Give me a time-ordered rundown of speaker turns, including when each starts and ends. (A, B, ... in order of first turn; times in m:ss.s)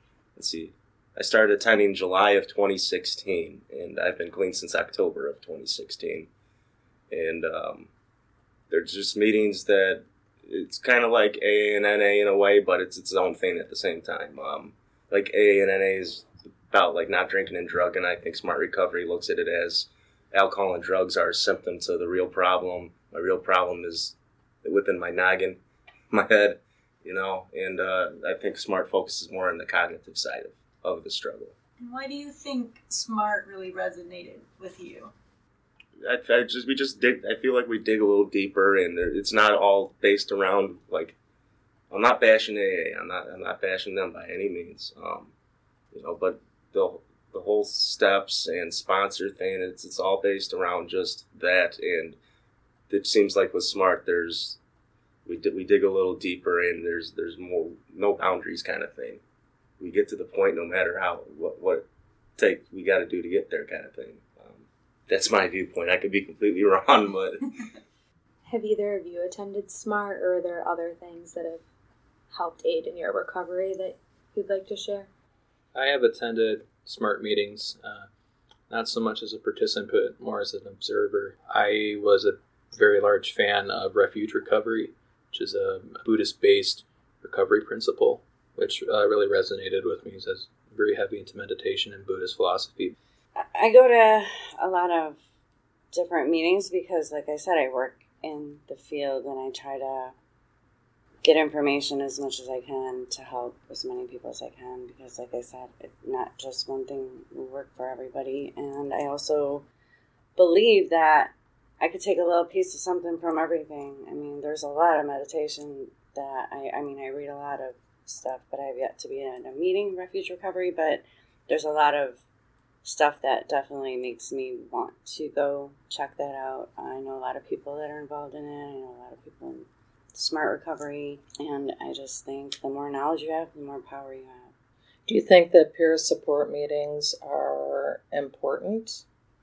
0:00.4-0:06.3 A
0:07.1-0:07.9 A
0:08.7-0:25.6 A
0:26.1-0:31.6 A
0:31.8-0:35.1 B
0:36.0-0:41.2 A
0:41.9-0:45.3 A
0:45.9-0:52.2 A
0:52.9-0:54.6 A
0:55.3-0:59.2 A
0:59.8-1:01.9 A
1:02.4-1:07.5 A
1:08.5-1:11.6 C
1:12.3-1:15.1 C
1:15.7-1:18.1 D
1:18.7-1:33.0 D
1:33.4-1:35.2 E
1:35.9-1:40.2 E
1:41.2-1:49.7 E
1:50.4-2:02.2 E
2:02.8-2:14.5 E
2:15.1-2:19.0 F